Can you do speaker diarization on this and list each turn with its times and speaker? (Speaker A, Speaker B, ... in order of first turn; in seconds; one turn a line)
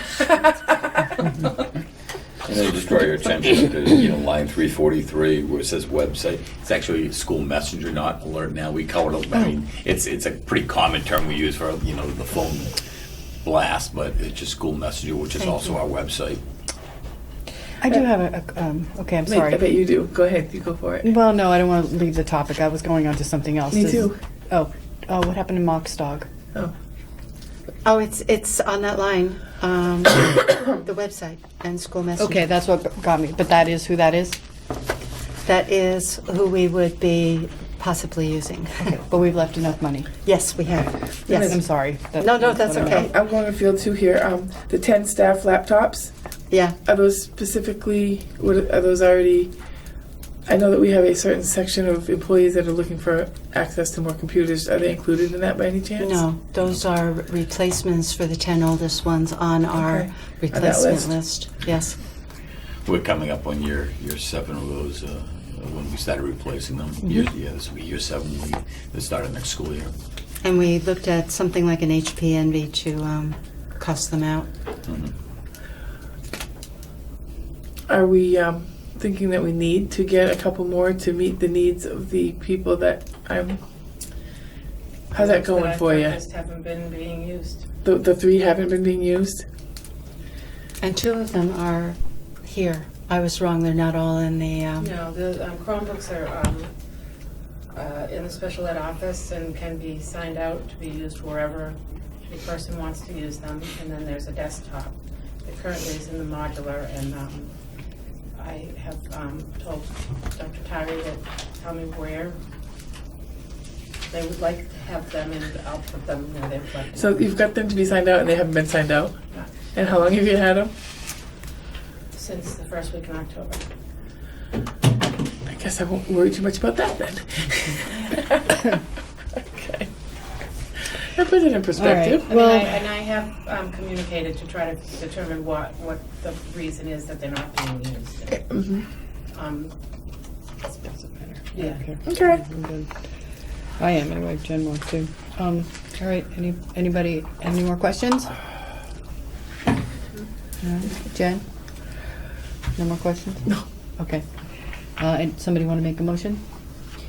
Speaker A: 2.5-12.8
Speaker A: 13.4-16.4
Speaker B: 17.8-19.6
Speaker C: 19.2-21.1
Speaker B: 21.0-26.3
Speaker C: 23.7-24.2
Speaker D: 27.9-32.5
Speaker B: 32.2-34.4
Speaker D: 35.4-39.0
Speaker B: 38.9-40.1
Speaker D: 40.2-41.6
Speaker B: 41.4-43.0
Speaker D: 42.2-43.1
Speaker C: 42.8-46.1
Speaker D: 46.5-46.8
Speaker C: 46.9-49.5
Speaker C: 50.5-56.2
Speaker D: 56.0-62.0
Speaker C: 59.8-61.1
Speaker A: 62.9-69.9
Speaker D: 70.4-74.5
Speaker A: 74.9-75.1
Speaker C: 77.9-83.6
Speaker C: 85.1-86.2
Speaker E: 85.1-87.7
Speaker C: 87.8-89.5
Speaker D: 90.8-94.9
Speaker E: 94.8-96.7
Speaker E: 97.7-107.5
Speaker E: 108.4-112.4
Speaker E: 114.1-117.3
Speaker C: 116.9-120.7
Speaker E: 122.1-123.7
Speaker C: 125.5-128.6
Speaker C: 129.4-129.9
Speaker C: 131.2-132.4
Speaker B: 131.8-132.8
Speaker E: 132.2-138.4
Speaker C: 138.4-138.8
Speaker E: 139.3-139.8
Speaker B: 140.8-142.9
Speaker E: 141.5-141.8
Speaker C: 142.1-142.4
Speaker B: 143.8-148.3
Speaker B: 150.6-151.4
Speaker B: 152.8-154.2
Speaker B: 155.0-156.4